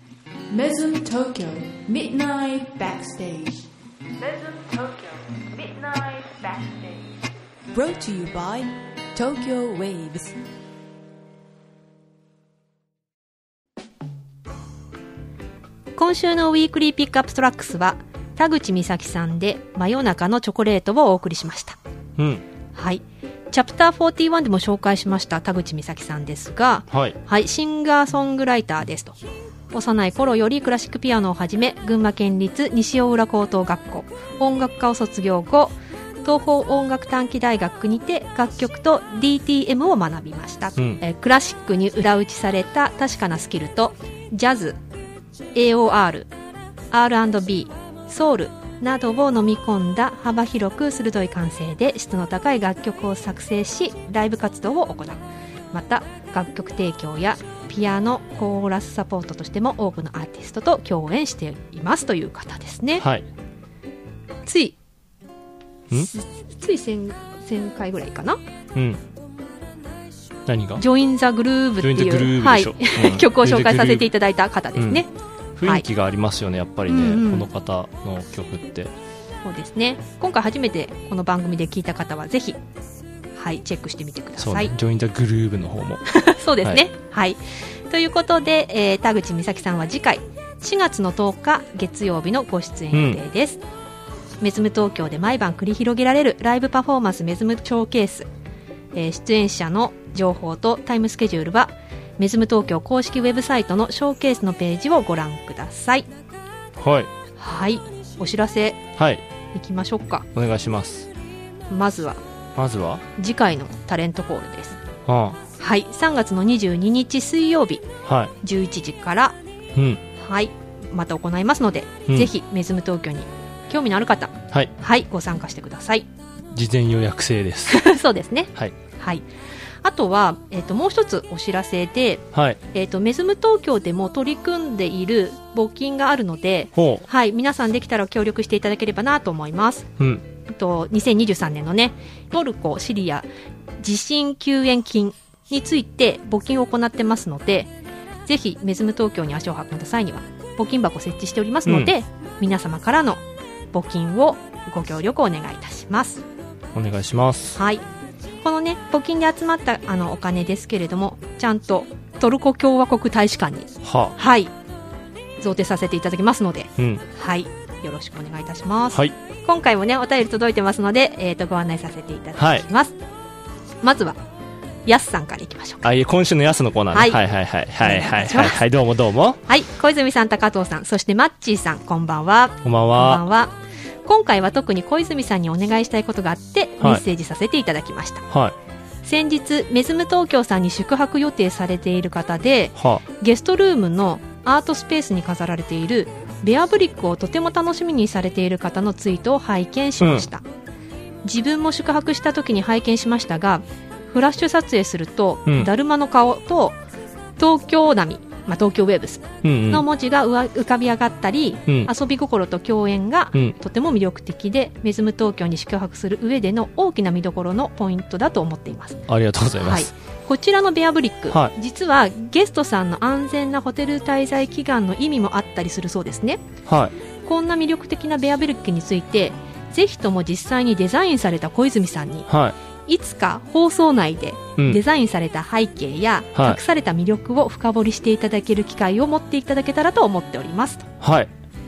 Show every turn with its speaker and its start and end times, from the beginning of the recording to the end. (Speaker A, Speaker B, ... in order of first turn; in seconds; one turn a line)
Speaker A: 0.5-7.1
Speaker A: 7.7-10.4
Speaker B: 16.0-21.8
Speaker C: 22.2-22.4
Speaker B: 22.8-29.2
Speaker C: 26.9-27.2
Speaker B: 29.7-44.8
Speaker B: 45.5-46.3
Speaker B: 46.9-63.1
Speaker C: 63.0-63.3
Speaker B: 64.5-64.8
Speaker B: 65.9-68.4
Speaker C: 68.8-69.0
Speaker C: 70.5-70.8
Speaker B: 70.8-75.1
Speaker C: 71.8-74.1
Speaker C: 74.8-75.0
Speaker C: 75.6-78.9
Speaker B: 76.9-77.5
Speaker B: 79.4-82.6
Speaker B: 83.4-84.7
Speaker C: 84.4-86.0
Speaker B: 86.1-93.6
Speaker C: 92.9-93.2
Speaker B: 94.4-98.3
Speaker B: 98.9-106.1
Speaker C: 106.8-107.1
Speaker B: 107.4-108.8
Speaker C: 109.0-109.2
Speaker B: 109.5-110.3
Speaker C: 110.3-111.1
Speaker B: 111.7-112.2
Speaker C: 112.6-113.0
Speaker B: 113.2-114.8
Speaker C: 115.1-115.4
Speaker B: 115.6-117.9
Speaker C: 118.0-118.3
Speaker B: 118.4-119.4
Speaker C: 119.8-120.0
Speaker B: 120.2-126.1
Speaker C: 126.5-127.8
Speaker B: 127.7-129.2
Speaker B: 129.8-139.9
Speaker C: 132.3-132.6
Speaker C: 136.8-137.1
Speaker B: 140.5-143.3
Speaker B: 143.8-147.7
Speaker B: 148.3-156.2
Speaker C: 151.7-151.9
Speaker C: 156.7-157.6
Speaker B: 157.6-157.8
Speaker B: 158.4-164.5
Speaker C: 163.8-164.2
Speaker B: 165.4-173.0
Speaker C: 166.8-167.0
Speaker C: 172.4-172.7
Speaker B: 173.8-174.2
Speaker B: 174.8-175.8
Speaker C: 175.8-179.4
Speaker B: 176.9-177.2
Speaker B: 177.8-178.6
Speaker B: 179.5-188.3
Speaker C: 182.6-183.2
Speaker C: 188.3-188.6
Speaker B: 189.0-200.4
Speaker C: 192.8-193.0
Speaker C: 200.0-200.3
Speaker B: 201.2-206.8
Speaker C: 205.5-205.7
Speaker B: 207.4-219.1
Speaker C: 209.4-209.8
Speaker C: 219.1-219.9
Speaker B: 219.6-226.4
Speaker C: 226.7-226.9
Speaker B: 227.2-232.3
Speaker C: 232.3-232.6
Speaker B: 232.9-240.9
Speaker C: 236.3-236.6
Speaker C: 241.0-241.3